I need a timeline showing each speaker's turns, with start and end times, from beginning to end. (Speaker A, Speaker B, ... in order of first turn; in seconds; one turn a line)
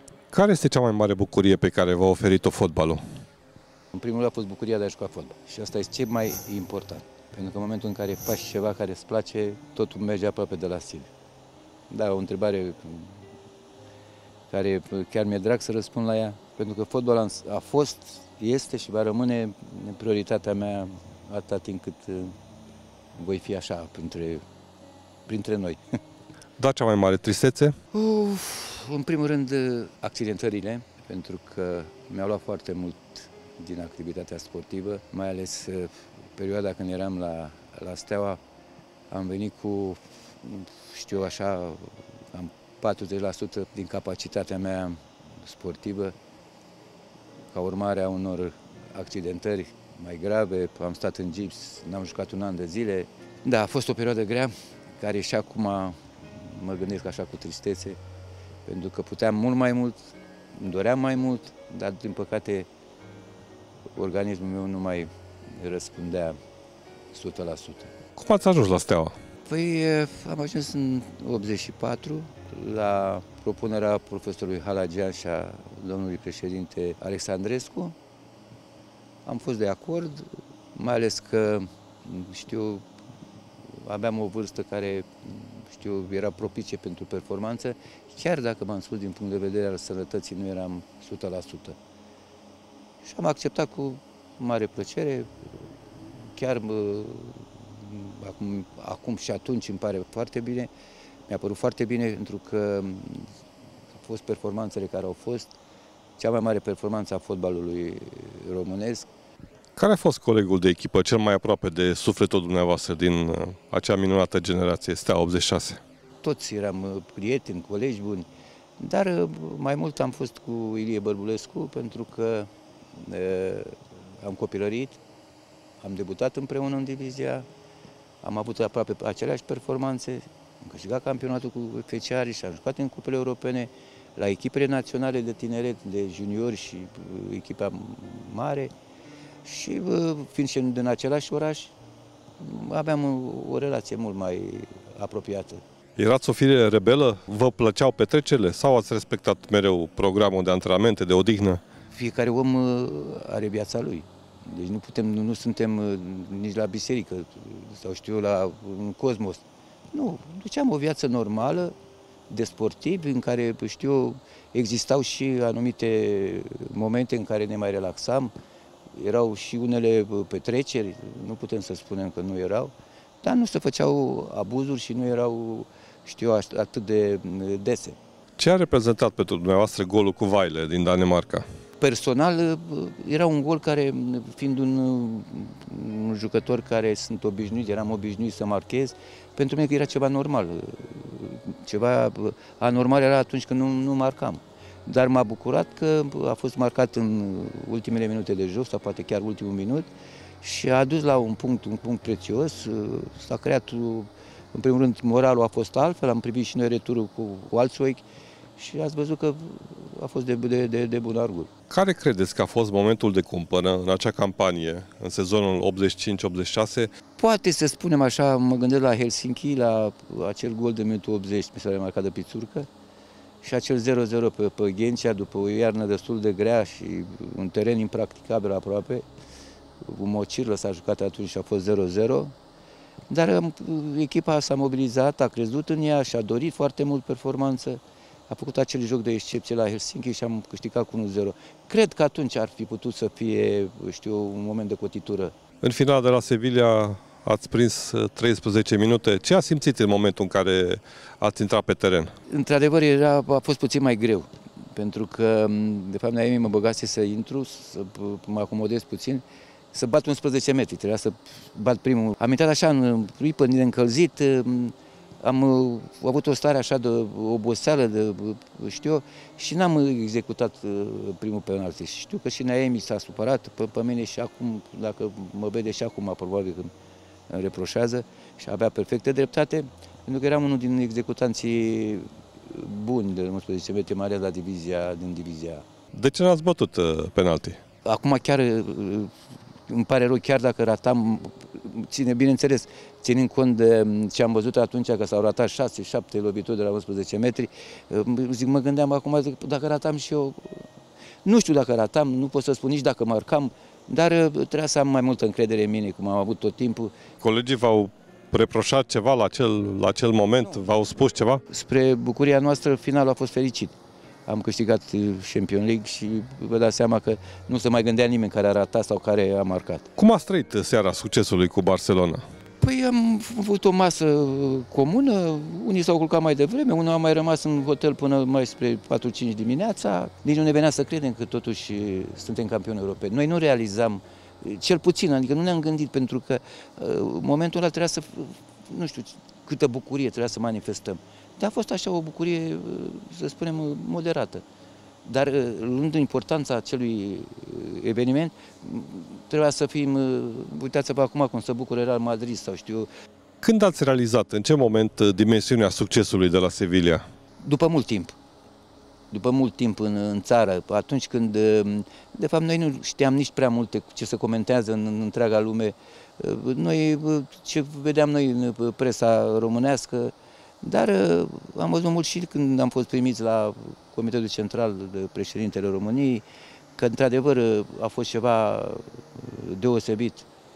Speaker A: 0.3-3.0
Speaker B: 3.9-11.1
Speaker B: 11.9-13.2
Speaker B: 14.5-22.3
Speaker B: 23.1-24.4
Speaker B: 25.3-25.8
Speaker A: 26.6-27.7
Speaker B: 27.9-38.4
Speaker B: 39.1-46.1
Speaker B: 47.5-58.0
Speaker B: 58.6-60.0
Speaker B: 60.5-62.7
Speaker B: 64.0-66.3
Speaker B: 67.1-67.9
Speaker A: 68.2-69.1
Speaker B: 69.5-77.9
Speaker B: 79.2-82.8
Speaker B: 83.8-91.8
Speaker B: 93.0-95.3
Speaker B: 96.2-100.7
Speaker B: 101.3-103.3
Speaker B: 103.9-105.5
Speaker B: 106.2-109.1
Speaker A: 109.8-115.8
Speaker B: 116.2-118.3
Speaker B: 118.8-125.0
Speaker B: 125.8-127.5
Speaker B: 128.2-138.7
Speaker B: 139.4-141.7
Speaker B: 142.4-145.6
Speaker A: 146.0-151.6
Speaker B: 151.9-161.7
Speaker B: 162.3-168.3
Speaker B: 168.9-178.0
Speaker A: 178.4-181.4
Speaker B: 181.8-199.9
Speaker B: 200.4-208.0
Speaker B: 208.6-211.5
Speaker A: 211.7-216.9
Speaker B: 217.2-222.7
Speaker B: 223.4-229.0
Speaker B: 229.8-232.3
Speaker B: 233.1-245.3
Speaker A: 245.6-252.1
Speaker B: 252.3-276.7
Speaker B: 277.3-285.6
Speaker A: 285.9-287.6
Speaker B: 287.8-289.1
Speaker B: 289.7-300.6
Speaker B: 301.2-307.0
Speaker A: 307.2-311.4
Speaker B: 311.5-313.7
Speaker B: 314.3-319.9
Speaker A: 320.0-322.2
Speaker B: 322.6-344.4
Speaker B: 345.0-352.9
Speaker A: 353.4-357.0
Speaker B: 357.4-358.1
Speaker B: 359.1-376.2
Speaker B: 376.8-380.3